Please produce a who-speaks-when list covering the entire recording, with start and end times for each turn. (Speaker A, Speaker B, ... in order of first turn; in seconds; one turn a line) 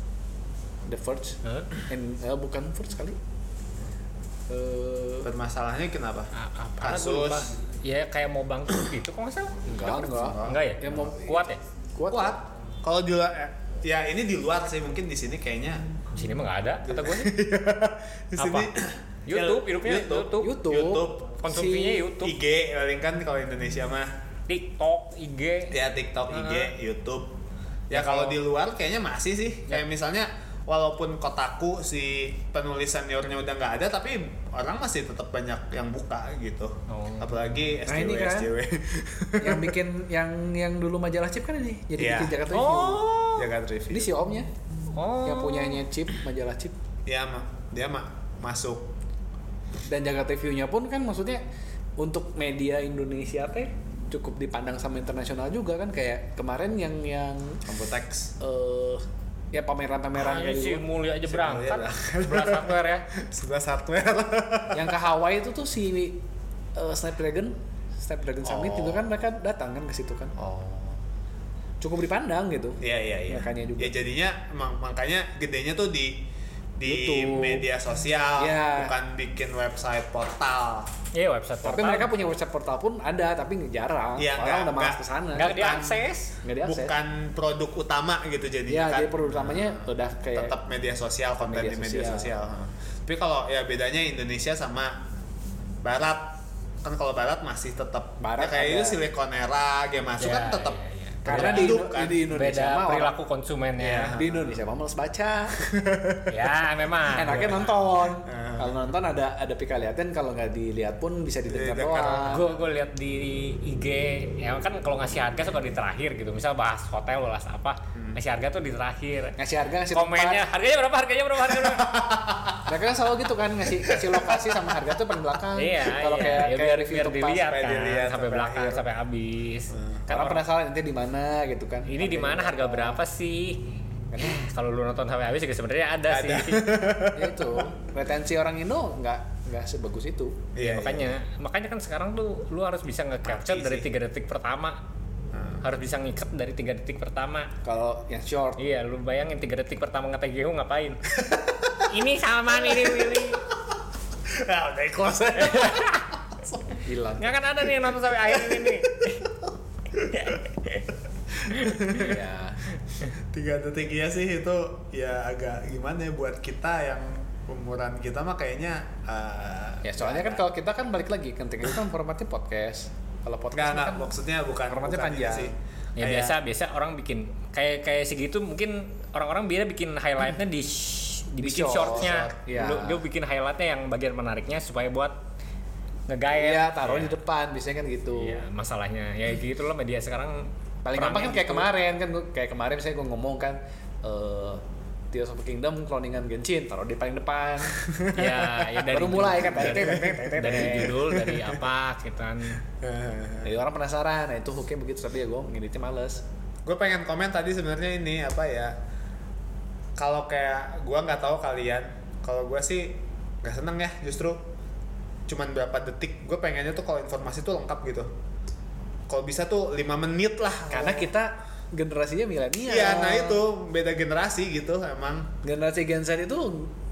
Speaker A: 0.9-3.2
Speaker B: 1.4-1.7
Speaker A: 4.5-5.3
Speaker C: 5.2-7.5
Speaker B: 6.3-9.6
Speaker A: 6.9-7.3
Speaker A: 9.7-12.4
Speaker C: 9.7-11.0
Speaker B: 10.4-11.6
Speaker C: 12.1-16.0
Speaker B: 16.1-17.3
Speaker C: 16.8-21.6
Speaker B: 18.4-18.7
Speaker B: 19.3-20.6
Speaker A: 20.4-22.1
Speaker B: 21.4-22.4
Speaker C: 22.1-24.1
Speaker B: 24.5-25.8
Speaker C: 25.7-27.4
Speaker B: 26.3-26.7
Speaker C: 27.9-39.8
Speaker B: 27.9-28.4
Speaker B: 36.9-37.3
Speaker A: 37.9-38.5
Speaker A: 39.4-43.1
Speaker C: 42.0-42.4
Speaker B: 42.5-43.5
Speaker C: 43.4-44.1
Speaker A: 43.9-44.5
Speaker B: 44.9-45.8
Speaker A: 45.2-46.8
Speaker C: 47.1-48.9
Speaker A: 49.9-51.4
Speaker A: 52.0-57.8
Speaker C: 57.7-58.3
Speaker A: 58.4-60.8
Speaker B: 60.1-63.1
Speaker C: 61.3-64.9
Speaker A: 64.7-66.2
Speaker A: 66.8-70.3
Speaker C: 68.4-69.1
Speaker C: 70.4-71.0
Speaker A: 71.8-74.0
Speaker C: 72.8-76.3
Speaker C: 76.8-80.9
Speaker A: 76.8-77.7
Speaker A: 78.4-79.0
Speaker B: 81.1-82.1
Speaker A: 81.6-85.6
Speaker C: 84.2-86.0
Speaker B: 85.3-86.3
Speaker A: 86.4-87.0
Speaker C: 86.6-95.0
Speaker A: 88.7-90.5
Speaker A: 91.4-92.3
Speaker C: 95.8-102.2
Speaker A: 98.2-99.0
Speaker B: 100.2-104.2
Speaker A: 101.3-103.2
Speaker C: 103.8-104.6
Speaker A: 104.2-105.6
Speaker C: 105.6-106.6
Speaker B: 106.3-107.7
Speaker A: 107.1-112.4
Speaker C: 107.2-108.8
Speaker C: 111.5-112.6
Speaker B: 112.3-119.4
Speaker C: 118.0-118.2
Speaker A: 119.4-120.4
Speaker B: 119.9-121.9
Speaker C: 121.5-122.7
Speaker A: 122.7-127.5
Speaker C: 123.8-124.8
Speaker B: 125.5-130.4
Speaker C: 127.4-128.8
Speaker C: 129.7-130.1
Speaker A: 130.1-133.0
Speaker B: 131.9-136.7
Speaker A: 134.1-134.4
Speaker C: 136.1-137.7
Speaker A: 137.1-140.5
Speaker C: 140.6-141.2
Speaker B: 140.6-144.8
Speaker C: 143.2-143.9
Speaker C: 145.3-145.6
Speaker B: 145.6-147.5
Speaker A: 147.6-148.6
Speaker B: 148.6-151.1
Speaker C: 151.2-151.9
Speaker B: 151.9-153.4
Speaker C: 152.5-156.8
Speaker B: 155.4-156.1
Speaker A: 156.8-157.4
Speaker B: 157.2-159.3
Speaker C: 158.1-160.4
Speaker B: 160.1-160.9
Speaker C: 161.3-162.2
Speaker B: 161.5-162.1
Speaker A: 161.9-162.6
Speaker C: 163.2-170.4
Speaker A: 169.8-174.1
Speaker C: 173.5-176.4
Speaker A: 174.7-175.5
Speaker B: 176.0-185.2
Speaker A: 181.4-183.0
Speaker C: 181.7-182.4
Speaker B: 186.1-187.2
Speaker A: 186.3-188.4
Speaker B: 188.2-191.7
Speaker A: 190.8-197.8
Speaker C: 197.7-198.8
Speaker B: 198.1-202.6
Speaker A: 198.9-201.0
Speaker C: 199.7-201.7
Speaker C: 202.6-203.5
Speaker A: 203.4-206.2
Speaker C: 206.7-208.8
Speaker C: 210.0-214.4
Speaker C: 215.3-218.1
Speaker C: 219.1-221.2
Speaker A: 220.7-223.4
Speaker C: 222.6-225.3
Speaker A: 225.4-226.8